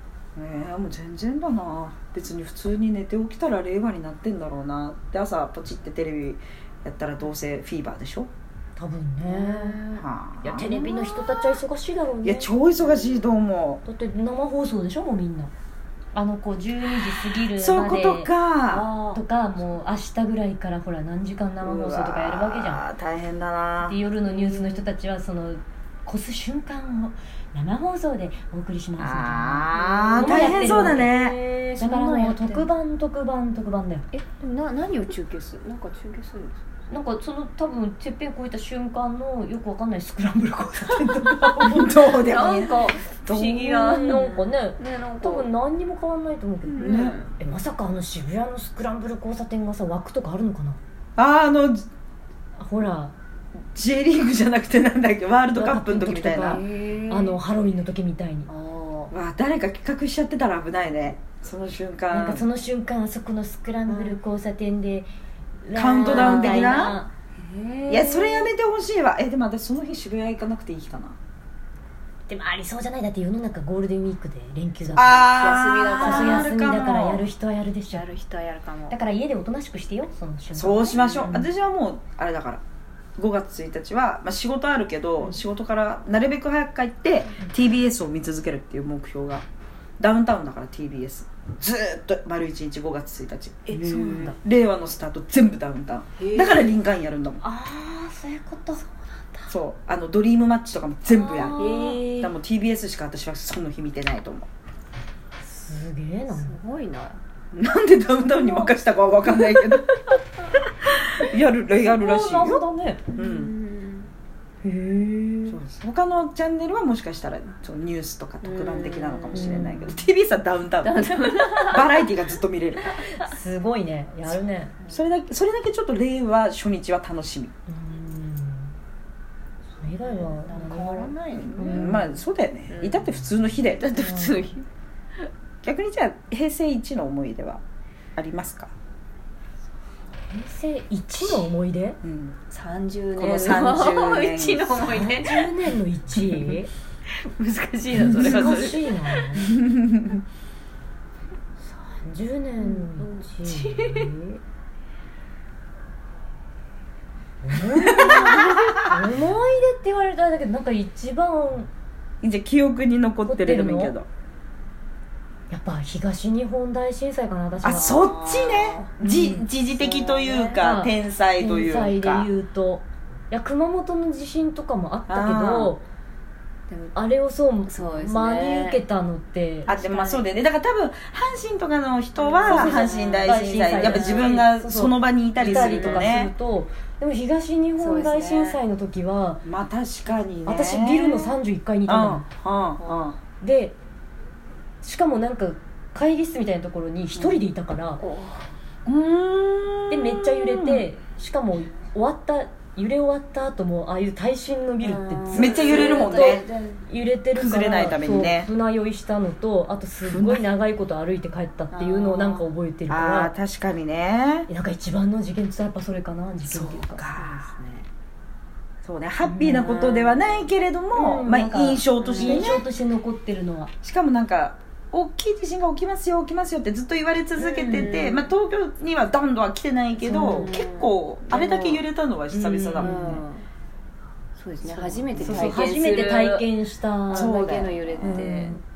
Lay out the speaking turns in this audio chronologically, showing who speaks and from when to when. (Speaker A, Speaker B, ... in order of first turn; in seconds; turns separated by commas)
Speaker A: 0.4-8.3, Speaker B: 8.8-9.8, Speaker C: 9.3-10.1, Speaker A: 10.0-10.7, Speaker B: 10.4-12.5, Speaker C: 10.6-11.6, Speaker A: 12.2-13.8, Speaker C: 12.8-13.4, Speaker B: 13.9-15.5, Speaker B: 16.1-18.3, Speaker A: 17.6-18.9, Speaker C: 18.7-19.2, Speaker B: 19.1-22.8, Speaker A: 21.6-24.0, Speaker B: 23.8-34.1, Speaker C: 24.2-24.9, Speaker A: 29.0-31.4, Speaker C: 29.8-31.1, Speaker C: 31.8-32.7, Speaker C: 34.1-36.6, Speaker B: 36.9-42.2, Speaker A: 41.0-42.8, Speaker C: 42.1-45.5, Speaker A: 43.3-43.6, Speaker B: 43.3-50.8, Speaker C: 46.6-47.3, Speaker A: 46.8-47.2, Speaker A: 51.2-51.9, Speaker B: 52.6-53.1, Speaker A: 53.7-56.6, Speaker B: 55.5-58.5, Speaker C: 56.4-57.4, Speaker C: 58.5-59.1, Speaker A: 59.1-62.5, Speaker B: 62.1-65.1, Speaker C: 63.9-64.2, Speaker B: 65.6-67.1, Speaker A: 65.7-67.0, Speaker C: 66.0-68.5, Speaker A: 67.9-71.2, Speaker B: 72.3-75.3, Speaker A: 74.9-77.3, Speaker C: 75.2-76.6, Speaker B: 76.0-78.0, Speaker C: 77.9-79.0, Speaker B: 78.9-81.5, Speaker A: 80.5-82.6, Speaker A: 83.2-89.4, Speaker A: 90.0-97.4, Speaker B: 93.7-94.4, Speaker C: 93.8-94.3, Speaker C: 96.2-96.7, Speaker B: 97.4-99.5, Speaker A: 99.5-104.5, Speaker B: 101.1-102.3, Speaker C: 101.6-102.1, Speaker B: 105.4-106.6, Speaker C: 106.3-107.2, Speaker A: 107.5-109.9, Speaker B: 108.3-108.7, Speaker A: 110.9-112.6, Speaker B: 111.7-113.1, Speaker C: 113.1-114.1, Speaker A: 113.2-113.5, Speaker B: 114.6-115.6, Speaker A: 115.5-123.0, Speaker C: 118.4-119.7, Speaker B: 119.3-120.1, Speaker C: 120.8-122.1, Speaker B: 123.1-124.7, Speaker A: 124.9-127.5, Speaker B: 127.7-128.7, Speaker B: 129.8-132.2, Speaker C: 130.0-132.1, Speaker A: 131.5-133.9, Speaker C: 132.7-133.1, Speaker C: 133.7-134.7, Speaker B: 134.0-134.5, Speaker A: 135.6-137.6, Speaker A: 138.2-138.7, Speaker B: 140.3-142.0, Speaker A: 142.0-142.4, Speaker C: 142.5-145.6, Speaker A: 143.2-144.9, Speaker B: 144.8-146.7, Speaker C: 147.2-149.4, Speaker B: 148.0-149.5, Speaker A: 148.1-148.8, Speaker A: 149.4-150.2, Speaker B: 151.7-154.4, Speaker C: 152.6-154.1, Speaker B: 157.4-161.7, Speaker A: 157.8-158.9, Speaker A: 162.2-164.1, Speaker B: 163.2-164.0, Speaker B: 165.5-167.9, Speaker C: 167.6-169.0, Speaker A: 167.6-172.3, Speaker B: 169.0-169.4, Speaker C: 169.8-170.6, Speaker B: 170.6-175.8, Speaker A: 175.1-175.8, Speaker C: 176.7-177.0, Speaker B: 176.9-179.7, Speaker C: 177.7-178.8, Speaker C: 179.7-180.3, Speaker A: 179.7-186.3, Speaker C: 182.2-184.4, Speaker B: 182.5-189.4, Speaker C: 185.4-186.1, Speaker C: 187.8-188.6, Speaker A: 189.4-193.2, Speaker B: 190.4-192.3, Speaker C: 192.8-193.2, Speaker B: 193.4-193.8, Speaker B: 194.8-198.0, Speaker C: 198.0-198.5, Speaker A: 198.9-200.9, Speaker B: 199.9-213.3, Speaker C: 204.8-206.8, Speaker A: 205.4-206.5, Speaker A: 207.3-208.5, Speaker A: 210.1-210.4, Speaker C: 211.7-212.5, Speaker A: 212.9-214.5, Speaker B: 214.5-217.0, Speaker A: 216.4-217.4, Speaker C: 217.1-217.9, Speaker A: 218.8-222.7, Speaker B: 219.2-219.8, Speaker C: 219.5-220.5, Speaker B: 220.9-223.7, Speaker C: 222.0-222.5, Speaker A: 223.8-233.1, Speaker C: 227.4-228.3, Speaker B: 230.0-230.6, Speaker C: 230.2-231.8, Speaker B: 232.3-233.2, Speaker C: 232.8-233.5, Speaker C: 234.4-236.5, Speaker B: 234.7-237.4, Speaker A: 235.1-235.6, Speaker C: 237.1-238.6, Speaker A: 237.1-238.3, Speaker B: 238.0-238.6